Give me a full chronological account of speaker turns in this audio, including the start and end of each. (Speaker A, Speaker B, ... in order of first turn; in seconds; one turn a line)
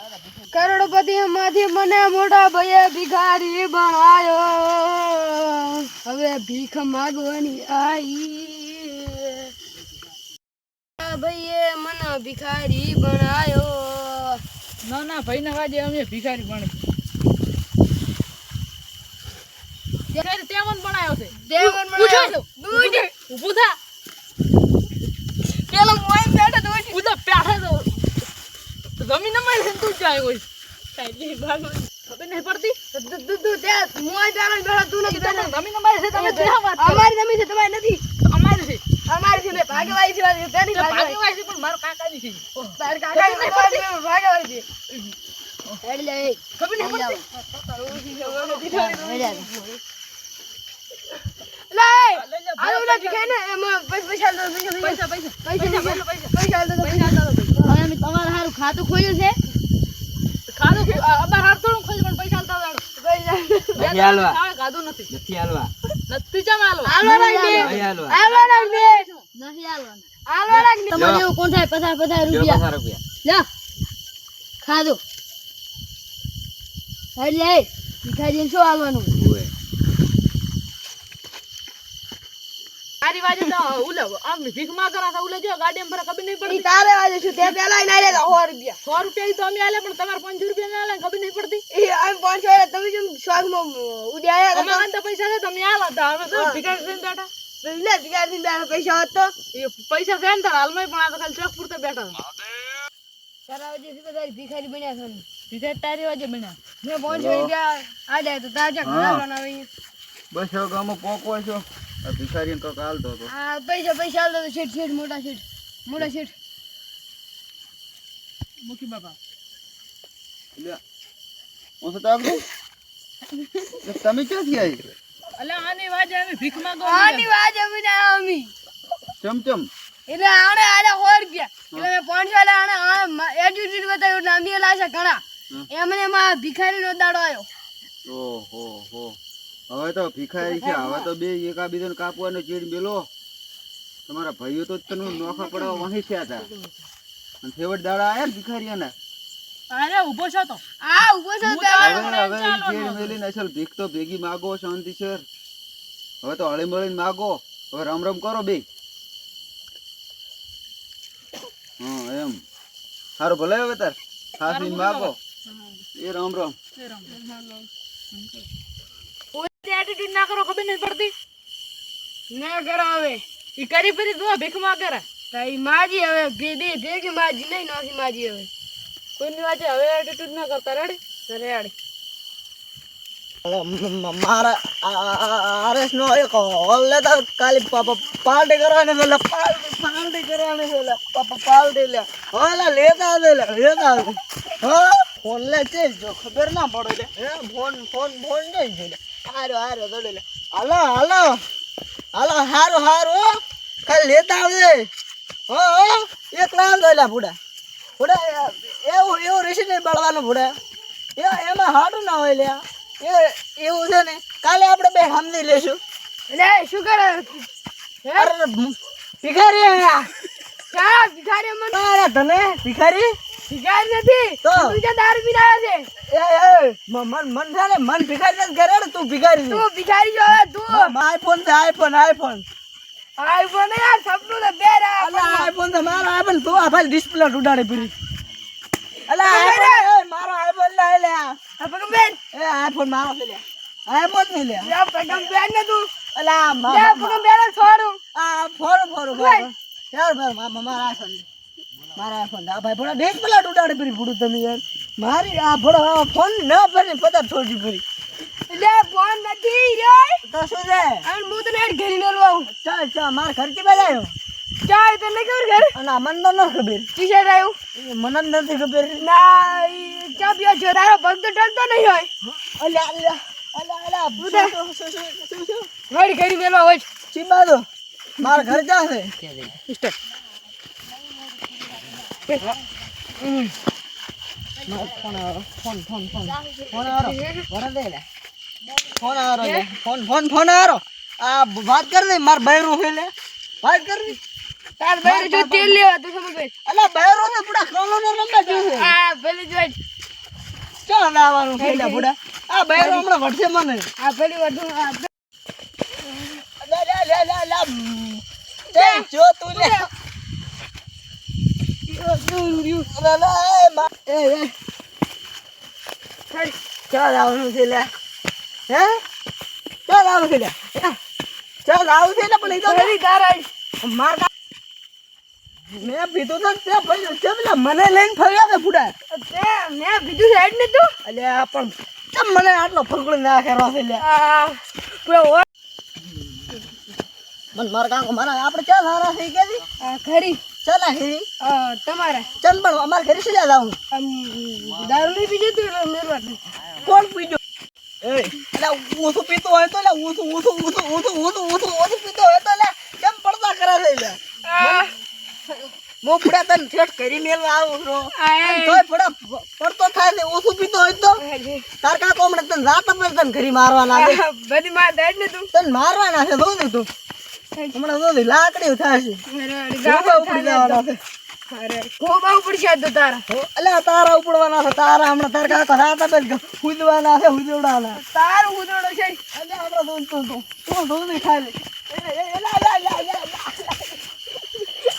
Speaker A: 0.5-9.5
Speaker A: 11.0-14.4
Speaker B: 14.8-16.8
Speaker B: 20.2-23.8
Speaker A: 21.4-23.1
Speaker A: 25.4-27.1
Speaker B: 26.9-28.1
Speaker B: 29.0-32.8
Speaker A: 32.9-35.5
Speaker B: 35.1-37.1
Speaker A: 36.1-38.0
Speaker B: 38.2-38.8
Speaker A: 39.1-41.2
Speaker B: 40.7-43.8
Speaker A: 42.8-44.7
Speaker A: 45.8-46.4
Speaker B: 46.6-49.5
Speaker A: 47.9-49.8
Speaker C: 48.7-49.5
Speaker A: 51.7-57.7
Speaker B: 52.2-53.3
Speaker B: 54.8-57.7
Speaker C: 57.6-59.4
Speaker B: 60.5-62.8
Speaker A: 63.0-63.9
Speaker B: 63.8-65.1
Speaker D: 63.8-64.4
Speaker D: 65.1-65.7
Speaker B: 66.1-69.2
Speaker A: 66.8-69.1
Speaker C: 67.0-67.9
Speaker D: 67.6-68.2
Speaker C: 69.3-70.1
Speaker A: 70.3-71.1
Speaker C: 70.9-72.7
Speaker D: 71.0-71.3
Speaker D: 72.3-73.0
Speaker C: 74.6-75.0
Speaker C: 77.2-77.7
Speaker A: 78.0-79.1
Speaker D: 79.1-79.5
Speaker B: 83.0-86.7
Speaker A: 86.5-88.8
Speaker B: 88.8-91.6
Speaker A: 91.7-94.9
Speaker B: 94.5-97.3
Speaker A: 96.3-96.6
Speaker A: 97.6-99.3
Speaker B: 99.5-102.2
Speaker A: 103.5-105.3
Speaker B: 105.5-106.6
Speaker A: 106.8-109.7
Speaker D: 107.1-107.5
Speaker D: 108.8-109.2
Speaker D: 110.3-113.3
Speaker A: 113.3-116.3
Speaker B: 118.7-119.2
Speaker D: 121.8-122.4
Speaker D: 123.8-124.9
Speaker B: 125.4-127.3
Speaker A: 126.8-128.5
Speaker D: 129.2-129.7
Speaker A: 130.1-137.5
Speaker D: 138.1-139.2
Speaker D: 139.7-143.1
Speaker A: 140.6-141.1
Speaker D: 144.1-146.5
Speaker D: 147.4-148.9
Speaker B: 149.7-150.6
Speaker A: 150.8-152.1
Speaker B: 151.4-153.2
Speaker D: 151.8-155.2
Speaker D: 156.2-158.7
Speaker D: 161.8-162.4
Speaker D: 163.2-165.2
Speaker B: 164.4-165.7
Speaker D: 166.0-166.6
Speaker B: 166.8-167.1
Speaker A: 167.1-167.7
Speaker B: 168.1-168.5
Speaker B: 169.3-171.1
Speaker A: 172.3-173.2
Speaker B: 173.6-175.1
Speaker A: 175.3-178.5
Speaker B: 179.2-181.6
Speaker A: 181.3-181.7
Speaker E: 183.4-201.4
Speaker E: 202.1-203.3
Speaker E: 203.9-204.9
Speaker E: 205.5-207.3
Speaker E: 208.0-210.5
Speaker E: 211.2-215.8
Speaker A: 216.3-217.5
Speaker A: 218.0-218.3
Speaker E: 218.2-220.1
Speaker A: 220.7-221.8
Speaker E: 221.7-223.1
Speaker A: 223.5-225.9
Speaker E: 224.4-224.8
Speaker E: 226.1-229.6
Speaker A: 229.5-230.9
Speaker E: 230.7-232.4
Speaker A: 233.2-235.5
Speaker E: 235.0-237.9
Speaker E: 239.1-241.4
Speaker A: 239.2-239.9
Speaker A: 241.6-242.2
Speaker E: 242.3-244.7
Speaker A: 244.6-245.9
Speaker E: 246.2-247.2
Speaker A: 246.7-248.0
Speaker E: 248.2-251.3
Speaker A: 249.1-249.5
Speaker E: 251.9-257.8
Speaker A: 258.5-260.2
Speaker E: 260.3-261.1
Speaker A: 261.1-262.5
Speaker E: 262.5-264.1
Speaker A: 264.6-265.7
Speaker E: 265.7-266.9
Speaker A: 266.9-267.6
Speaker E: 267.8-269.0
Speaker A: 269.0-272.1
Speaker E: 272.3-275.7
Speaker A: 274.2-274.5
Speaker A: 275.9-276.9
Speaker E: 277.1-277.7
Speaker E: 278.2-279.1
Speaker B: 279.7-279.9
Speaker B: 282.3-282.6
Speaker A: 283.2-283.5
Speaker E: 284.6-288.0
Speaker A: 287.1-287.4
Speaker E: 288.9-294.2
Speaker A: 294.8-296.5
Speaker E: 295.0-295.8
Speaker E: 296.7-298.9
Speaker A: 298.4-299.8
Speaker E: 300.9-303.9
Speaker A: 301.6-302.1
Speaker A: 302.8-303.1
Speaker A: 304.0-305.1
Speaker E: 306.6-309.9
Speaker A: 308.7-309.9
Speaker A: 311.9-312.9
Speaker E: 312.9-314.5
Speaker E: 316.9-317.9
Speaker E: 318.7-319.0
Speaker E: 319.9-321.0
Speaker E: 321.6-322.9
Speaker A: 322.4-323.5
Speaker E: 323.8-324.3
Speaker E: 325.7-328.9
Speaker A: 329.1-330.9
Speaker E: 331.1-334.0
Speaker A: 334.0-335.5
Speaker E: 336.0-336.6
Speaker E: 337.6-339.6
Speaker A: 339.8-340.4
Speaker E: 340.6-341.3
Speaker A: 341.4-342.3
Speaker E: 342.4-343.8
Speaker A: 343.9-346.4
Speaker E: 346.8-347.4
Speaker E: 348.0-354.9
Speaker A: 354.5-354.9
Speaker E: 356.0-361.2
Speaker A: 358.2-358.8
Speaker A: 361.2-361.6
Speaker E: 361.8-364.2
Speaker A: 363.9-365.5
Speaker E: 365.5-366.9
Speaker E: 367.7-369.2
Speaker A: 369.3-370.8
Speaker E: 369.8-371.0
Speaker A: 371.5-373.2
Speaker E: 373.3-378.0
Speaker A: 377.9-379.2
Speaker E: 379.3-384.0